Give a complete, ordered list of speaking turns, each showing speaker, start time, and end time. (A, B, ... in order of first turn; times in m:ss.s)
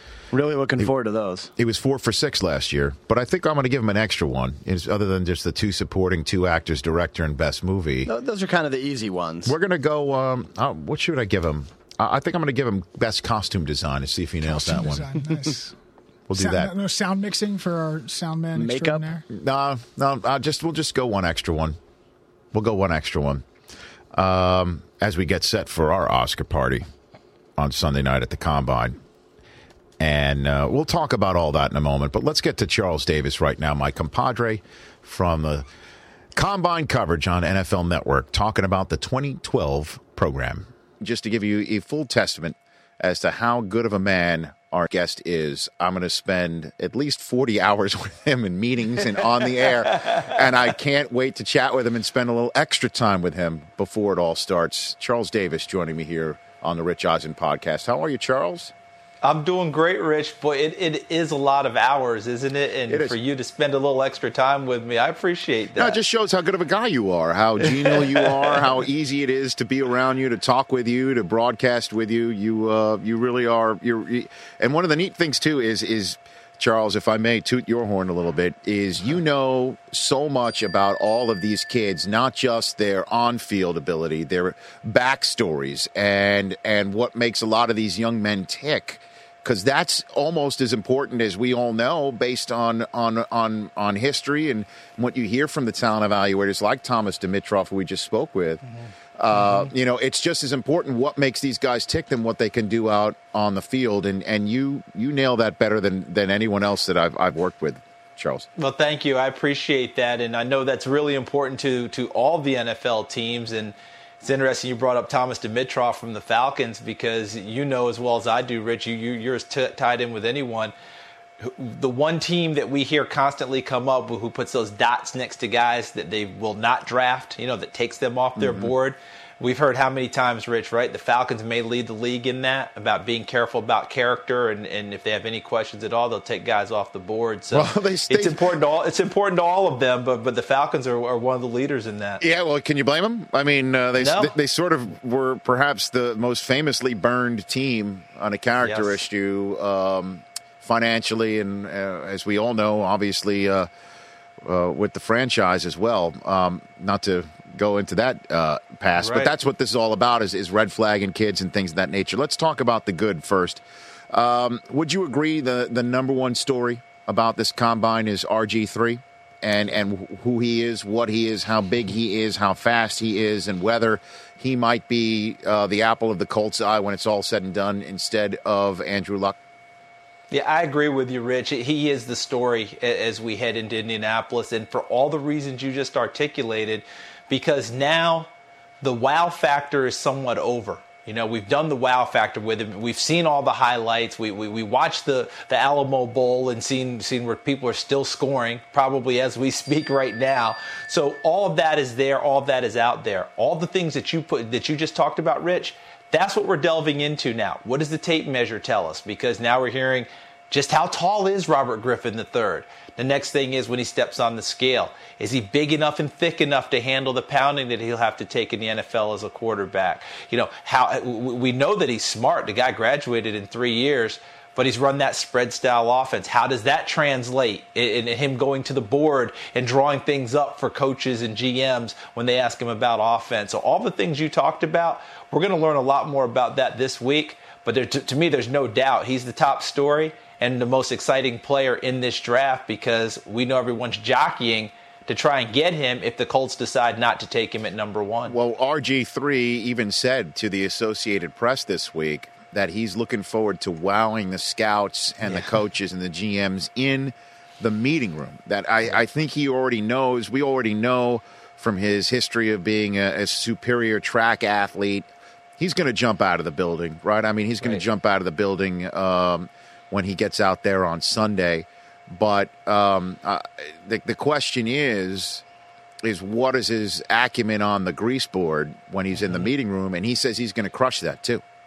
0:00.3-0:01.5 A
0:01.6-0:08.1 B
0:08.1-0:09.6 A
0:09.4-0:15.1 B
0:14.4-0:15.8 C
0:16.3-0:16.7 B
0:16.3-0:19.2 C
0:18.5-0:19.0 A
0:19.3-0:21.8 B
0:22.5-0:23.4 B
0:24.1-0:26.8 B
0:27.6-0:29.0 B
0:30.0-0:35.7 B
0:36.3-0:58.7 B
0:59.2-1:06.0 D
1:02.9-1:03.2 B
1:05.8-1:38.6 B
1:39.1-1:48.5 B
1:48.6-2:00.7 D
2:01.4-2:22.2 D
2:08.4-2:08.7 B
2:17.5-2:18.5 B
2:22.2-2:33.7 B
2:24.0-2:24.3 D
2:28.6-2:29.0 D
2:34.4-2:59.4 B
2:39.0-2:39.3 D
3:00.3-3:08.3 D
3:08.8-4:08.4 D
4:08.3-4:25.1 B
4:25.6-4:35.4 B
4:36.0-4:41.4 B